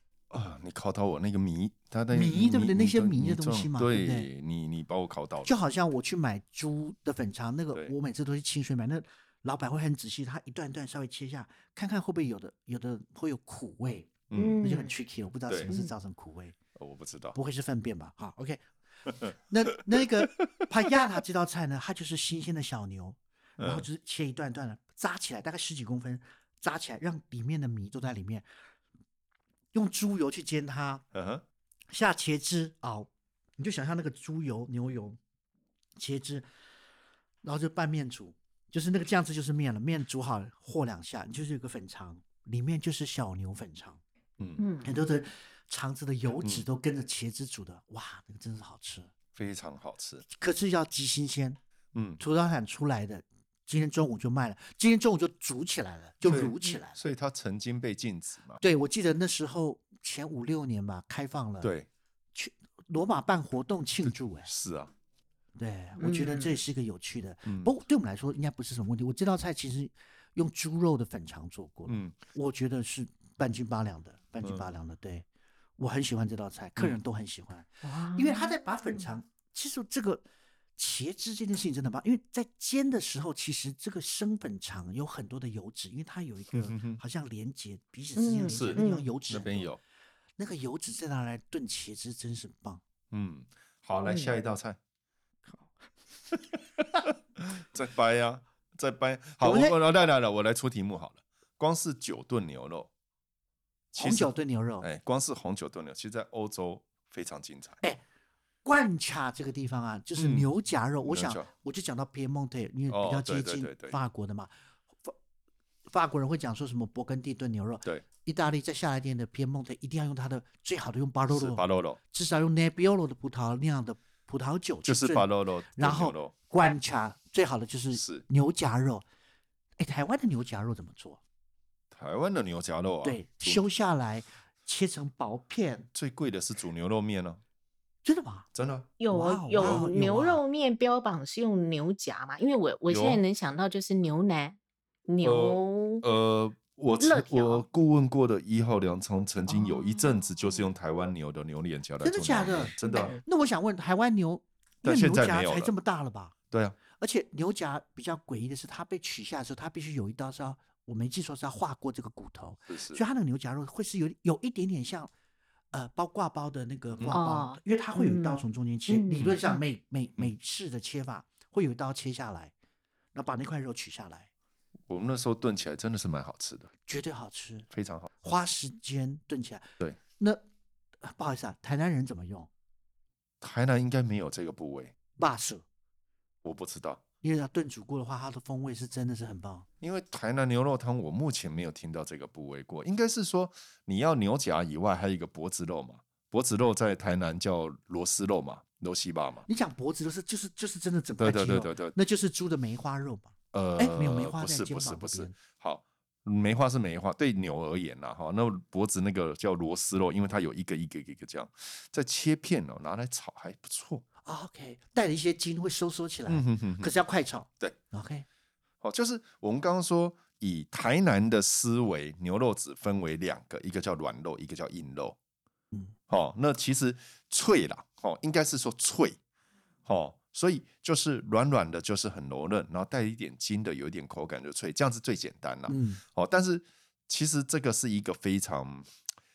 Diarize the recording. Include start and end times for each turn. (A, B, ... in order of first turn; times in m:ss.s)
0:00.3-0:05.5 A
0:02.1-0:04.3 B
0:05.4-0:16.6 B
0:14.3-0:14.6 A
0:14.3-0:14.9 C
0:16.8-0:17.4 A
0:17.3-0:18.6 B
0:19.1-0:19.3 A
0:19.4-0:28.4 B
0:19.9-0:20.6 A
0:23.6-0:23.8 A
0:29.7-0:31.0 B
0:31.1-0:31.4 A
0:31.9-0:35.2 B
0:36.0-0:36.4 B
0:37.4-0:44.0 B
0:44.6-0:44.9 C
0:44.8-0:49.1 B
0:49.3-0:50.2 A
0:50.3-0:51.6 B
0:51.9-0:52.2 A
0:52.2-0:57.0 B
0:56.2-0:58.6 A
0:58.6-1:01.7 B
1:01.6-1:01.9 A
1:02.3-1:04.5 B
1:04.0-1:04.9 A
1:05.6-1:15.2 B
1:06.0-1:06.5 C
1:07.4-1:07.7 A
1:11.9-1:12.2 A
1:15.8-1:20.2 B
1:17.8-1:18.5 C
1:20.8-1:29.7 B
1:26.5-1:27.0 A
1:28.2-1:29.0 C
1:28.4-1:29.8 A
1:30.4-1:32.8 B
1:33.1-1:34.8 A
1:34.1-1:34.3 C
1:36.8-1:42.9 A
1:39.4-1:39.8 B
1:43.9-1:47.8 A
1:44.0-1:44.9 B
1:48.6-1:54.5 B
1:50.2-1:50.5 A
1:51.0-1:51.5 A
1:52.9-1:54.0 A
1:55.9-2:09.0 B
2:01.3-2:02.0 A
2:04.8-2:06.3 A
2:07.9-2:08.2 A
2:09.8-2:11.2 B
2:11.9-2:13.6 A
2:13.0-2:15.9 B
2:15.9-2:17.4 A
2:18.0-2:18.5 B
2:18.5-2:18.9 A
2:19.0-2:26.0 C
2:19.1-2:20.4 B
2:19.6-2:19.8 A
2:22.9-2:23.2 A
2:25.2-2:33.2 A
2:27.0-2:27.6 C
2:29.5-2:30.0 C
2:32.0-2:36.3 B
2:32.8-2:33.2 C
2:34.8-2:35.7 A
2:36.5-2:36.8 A
2:36.9-2:45.1 B
2:42.7-2:43.0 A
2:45.7-2:52.5 B
2:47.1-2:49.6 C
2:53.1-2:54.3 B
2:54.9-2:56.7 A
2:56.8-2:57.7 B
2:57.7-2:58.1 A
2:58.2-3:00.4 B
3:01.0-3:02.5 B
3:03.4-3:04.9 A
3:05.2-3:05.6 B
3:06.4-3:07.0 A
3:07.2-3:09.6 B
3:09.8-3:19.4 A
3:19.5-3:25.4 B
3:21.2-3:21.9 A
3:23.5-3:34.0 A
3:34.2-3:38.2 B
3:36.3-3:36.9 A
3:38.8-3:45.2 A
3:46.1-3:49.2 A
3:49.8-3:58.9 A
3:55.7-3:56.0 B